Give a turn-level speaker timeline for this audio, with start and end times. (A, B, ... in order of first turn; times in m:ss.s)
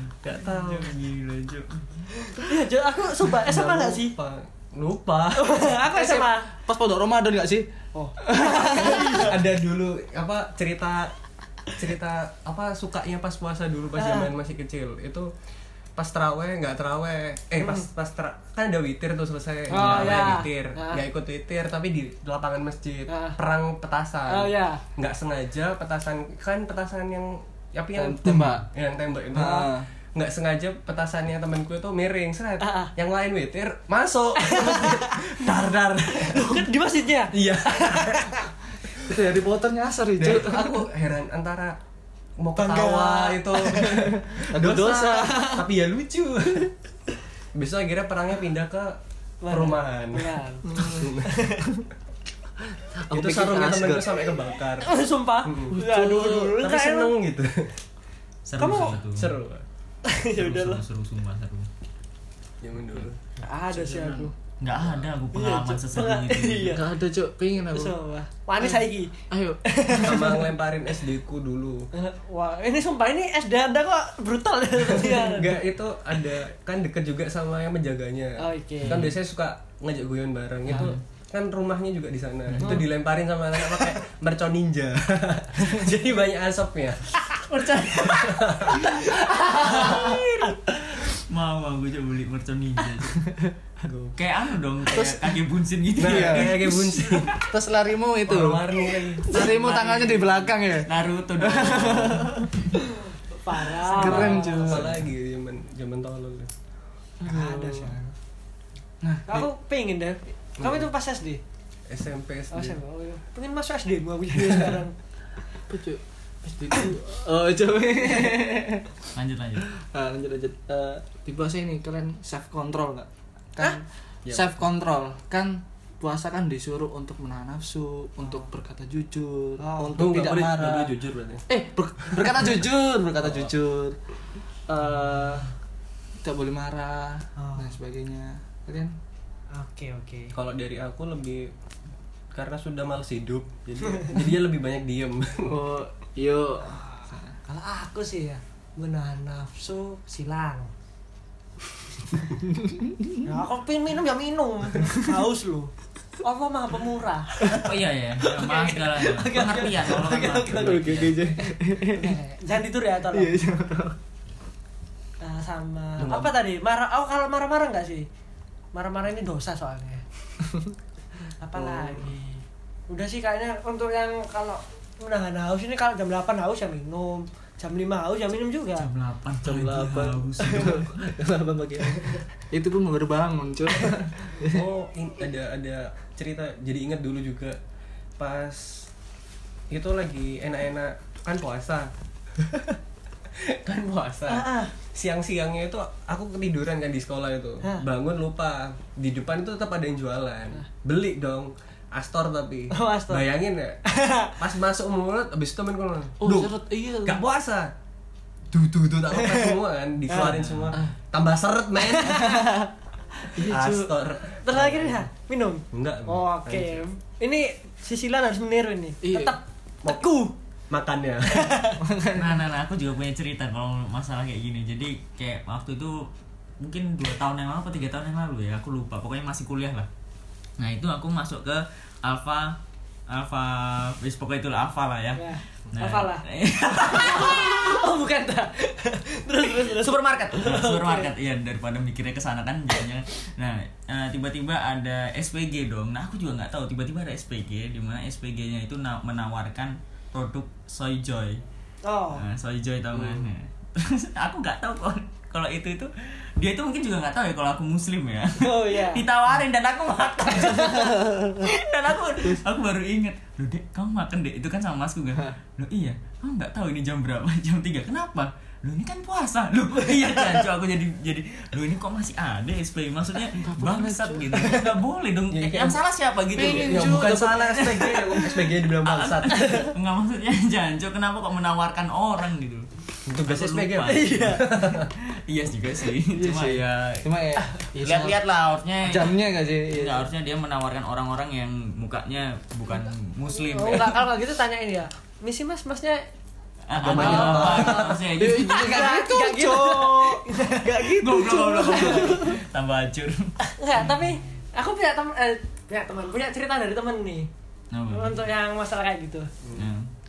0:00.2-0:00.9 A
0:00.3-0:02.0 B
0:02.2-0:04.1 C
0:03.3-0:05.7 A
0:05.3-0:06.5 C
0:05.9-0:07.7 D
0:07.9-0:09.3 C
0:08.2-0:09.3 D
0:08.5-0:11.1 A
0:11.7-0:15.3 A
0:14.0-0:14.3 C
0:16.0-0:36.7 A
0:17.6-0:17.8 C
0:19.7-0:20.4 D
0:19.7-0:21.0 C
0:23.1-0:23.4 C
0:24.3-0:24.8 C
0:27.9-0:28.6 D
0:29.3-0:29.9 D
0:29.4-0:29.7 C
0:32.6-0:32.9 C
0:34.4-0:35.3 C
0:36.2-0:38.4 C
0:37.3-0:38.4 A
0:39.0-0:40.9 D
0:40.2-0:41.8 A
0:42.4-0:46.7 A
0:42.6-0:44.0 C
0:43.9-0:45.7 D
0:47.5-0:49.0 A
0:49.4-0:51.7 C
0:49.5-0:51.4 A
0:50.7-0:51.1 D
0:52.9-0:54.3 D
0:53.1-0:54.9 A
0:54.8-0:57.1 C
0:55.4-0:57.8 A
0:55.7-0:56.4 D
0:58.4-0:59.4 B
0:58.6-0:59.0 C
0:58.6-0:59.6 A
1:00.0-1:00.8 C
1:00.3-1:01.7 B
1:02.6-1:03.2 A
1:03.4-1:04.3 C
1:03.7-1:04.3 D
1:04.6-1:06.8 B
1:05.3-1:06.8 C
1:06.7-1:07.9 D
1:07.7-1:10.5 C
1:08.6-1:10.4 D
1:10.0-1:11.9 A
1:11.9-1:15.6 C
1:14.9-1:27.2 A
1:18.4-1:19.1 C
1:18.8-1:19.2 B
1:20.7-1:21.0 B
1:22.5-1:22.8 B
1:27.2-1:30.6 C
1:27.9-1:29.0 A
1:29.5-1:33.2 B
1:29.7-1:30.1 D
1:34.2-1:37.4 B
1:34.9-1:35.3 D
1:36.0-1:37.4 A
1:36.0-1:42.8 D
1:38.2-1:39.5 A
1:39.3-1:40.0 C
1:39.4-1:42.4 B
1:43.2-1:44.8 C
1:43.8-1:45.0 D
1:43.9-1:46.5 A
1:47.2-1:48.0 D
1:47.2-1:48.1 C
1:49.0-1:49.5 D
1:49.3-1:51.4 C
1:50.6-1:50.9 A
1:51.9-1:52.8 A
1:52.5-1:54.9 C
1:55.7-1:58.9 D
1:59.1-1:59.7 B
1:59.7-2:10.9 D
2:04.2-2:04.5 A
2:09.6-2:10.2 C
2:10.0-2:11.4 A
2:11.5-2:14.0 D
2:13.2-2:13.5 A
2:14.7-2:15.5 D
2:16.2-2:19.0 D
2:17.4-2:17.7 C
2:19.5-2:20.3 C
2:20.3-2:21.5 A
2:22.3-2:25.6 A
2:25.4-2:27.3 D
2:26.7-2:30.7 C
2:32.4-2:33.2 D
2:33.2-2:37.6 C
2:37.4-2:41.2 B
2:38.2-2:41.1 C
2:40.3-2:42.2 D
2:41.8-2:43.4 C
2:43.1-2:44.0 D
2:45.2-2:48.1 C
2:46.0-2:46.3 A
2:48.7-2:50.0 C
2:50.4-2:50.7 D
2:51.3-2:58.9 C
2:51.5-2:52.1 D
2:58.8-3:01.0 B
2:59.4-3:04.7 D
3:04.5-3:07.6 A
3:08.2-3:08.9 A
3:09.7-3:12.6 A
3:13.3-3:23.8 A
3:14.3-3:14.7 C
3:22.7-3:23.3 C
3:23.9-3:24.4 C
3:24.4-3:27.7 A
3:26.2-3:27.2 D
3:28.5-3:32.4 A
3:29.1-3:29.6 C
3:30.1-3:30.3 C
3:30.2-3:30.8 B
3:31.8-3:32.6 C
3:33.3-3:33.9 D
3:33.3-3:35.1 A
3:34.4-3:40.3 C
3:35.7-3:36.8 A
3:39.0-3:39.4 D
3:40.7-3:41.6 A
3:41.3-3:41.8 C
3:41.8-3:42.4 D
3:42.1-3:49.9 B
3:50.6-3:57.8 B
3:55.2-4:01.1 C
3:59.6-4:11.4 B
4:11.8-4:12.2 C
4:12.1-4:37.0 B
4:12.9-4:13.2 A
4:18.4-4:19.0 C
4:33.4-4:34.6 D
4:34.4-4:34.6 C
4:35.3-4:35.8 A
4:36.3-4:38.1 D
4:36.4-4:39.7 A
4:37.6-4:47.0 B
4:39.3-4:39.7 C
4:43.1-4:44.9 A
4:43.8-4:44.4 C
4:46.1-4:48.2 D
4:47.8-4:54.0 B
4:48.8-4:50.0 D
4:53.3-4:56.0 C
4:56.7-4:58.6 B
4:56.8-4:57.9 A
4:56.8-5:02.4 D
4:56.9-5:02.3 C
5:01.0-5:03.3 B
5:03.4-5:07.3 C
5:07.7-5:08.2 B
5:07.9-5:09.3 C
5:09.4-5:09.7 A
5:09.6-5:09.9 B